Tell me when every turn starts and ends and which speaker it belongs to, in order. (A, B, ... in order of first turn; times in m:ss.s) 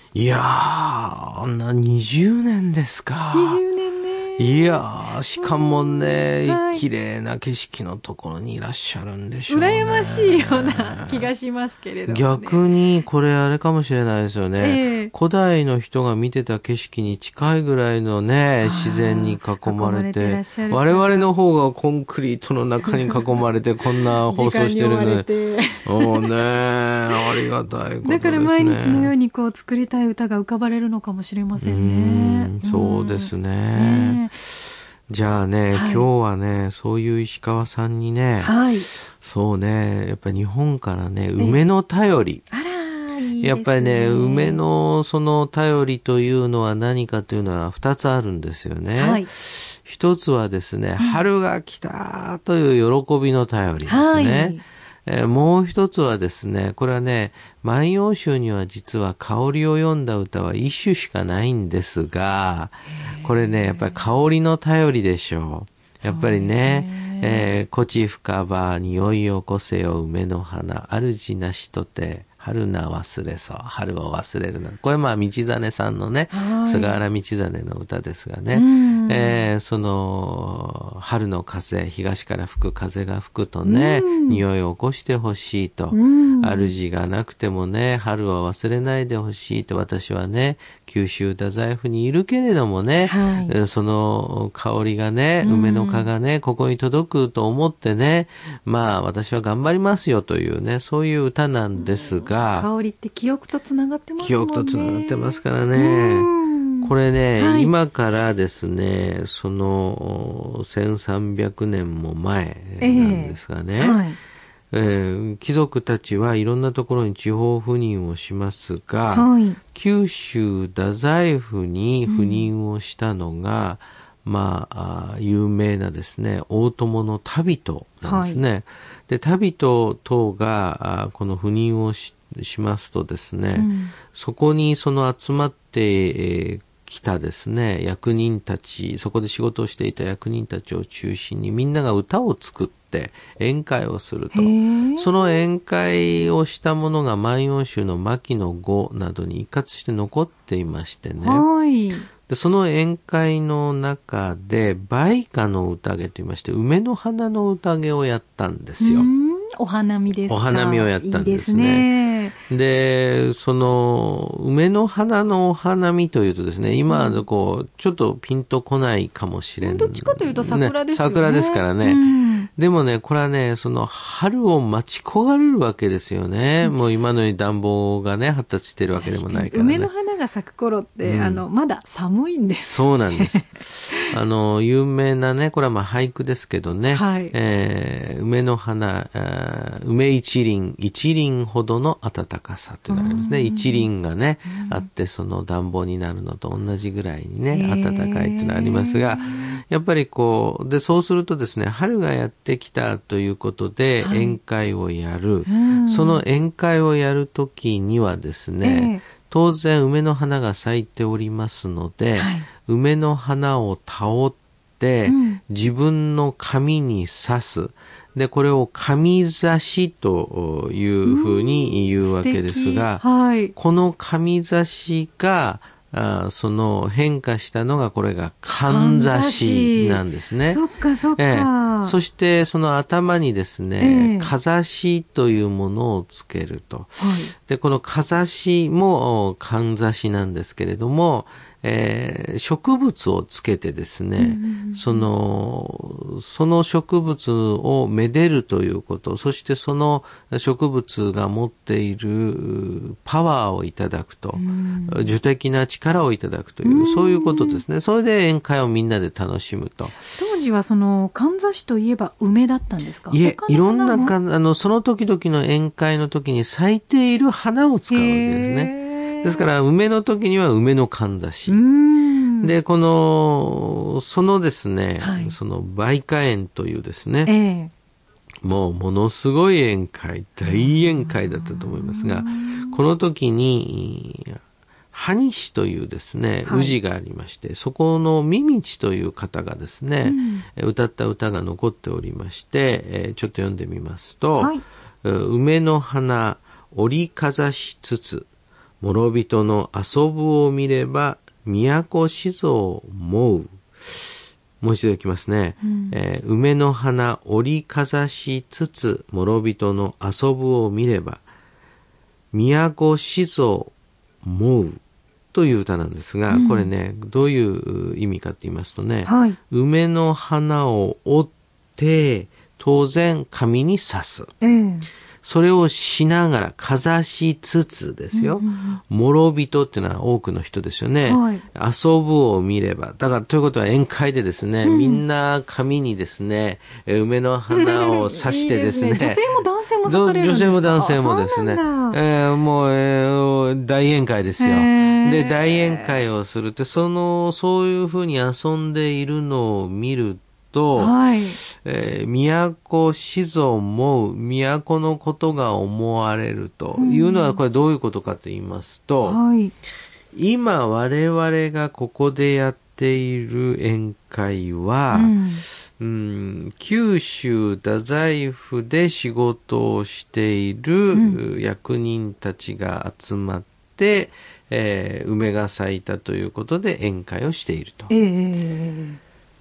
0:00.2-0:03.6 A
0:03.3-0:06.8 B
0:04.4-0:11.3 A
0:09.5-0:12.8 B
0:12.1-0:25.3 A
0:14.6-0:15.1 B
0:18.6-0:21.3 B
0:22.8-0:23.3 B
0:24.1-0:26.3 B
0:25.9-0:29.1 A
0:28.0-0:34.4 B
0:31.6-0:34.2 A
0:35.1-0:38.5 A
0:35.7-0:36.1 B
0:38.4-0:38.9 B
0:39.1-0:42.4 A
0:42.5-0:44.6 B
0:43.4-1:42.7 A
0:49.0-0:49.3 B
0:53.9-0:54.6 B
1:02.9-1:04.0 B
1:06.0-1:07.5 B
1:16.3-1:17.0 B
1:18.5-1:19.5 B
1:23.6-1:24.4 B
1:25.9-1:26.7 B
1:33.0-1:33.6 B
1:35.4-1:36.1 B
1:41.8-1:47.7 B
1:44.2-1:46.3 A
1:46.8-1:54.0 A
1:52.8-1:54.2 B
1:54.7-2:31.5 A
1:59.1-1:59.6 B
2:02.1-2:02.5 B
2:08.0-2:08.4 B
2:13.6-2:14.0 B
2:24.3-2:25.4 B
2:31.2-2:32.1 B
2:32.3-2:39.1 A
2:38.8-2:42.4 B
2:40.3-2:41.9 A
2:42.4-2:59.9 A
2:46.9-2:47.3 B
2:49.6-2:52.5 B
2:59.0-3:04.1 B
3:01.0-3:01.4 A
3:02.6-3:43.0 A
3:06.9-3:07.4 B
3:12.9-3:13.9 B
3:14.5-3:14.9 B
3:17.5-3:19.6 B
3:24.0-3:24.4 B
3:25.5-3:26.2 B
3:28.6-3:29.0 B
3:32.2-3:32.5 B
3:35.1-3:35.4 B
3:41.0-3:43.5 B
3:43.6-3:50.6 A
3:48.6-3:52.0 B
3:51.2-4:20.0 A
3:53.8-3:54.3 B
3:57.0-3:57.3 B
4:04.2-4:05.1 B
4:14.3-4:15.2 B
4:16.6-4:17.6 B
4:20.0-4:24.2 B
4:23.1-4:31.6 A
4:27.9-4:29.5 B
4:31.5-4:32.6 B
4:32.4-4:37.3 A
4:35.0-4:35.4 B
4:37.3-4:37.7 B
4:38.4-4:44.4 A
4:40.4-4:42.8 B
4:44.9-4:58.3 A
4:46.4-4:46.8 B
4:50.0-4:50.5 B
4:54.4-4:54.6 B
4:58.8-5:03.6 A
5:04.6-5:11.2 A
5:05.6-5:06.0 B
5:12.3-5:14.8 A
5:15.3-5:24.3 A
5:16.3-5:16.7 B
5:19.0-5:19.4 B
5:24.4-5:24.9 B
5:25.2-5:39.2 A
5:28.1-5:28.8 B
5:31.1-5:31.4 B
5:34.6-5:35.0 B
5:37.5-5:42.0 B
5:39.8-5:59.2 A
5:44.4-5:46.0 B
5:50.8-5:51.4 B
5:56.8-5:57.4 B
5:59.0-5:59.5 B
6:00.1-6:17.9 A
6:04.9-6:05.4 B
6:10.9-6:11.2 B
6:17.9-6:19.0 B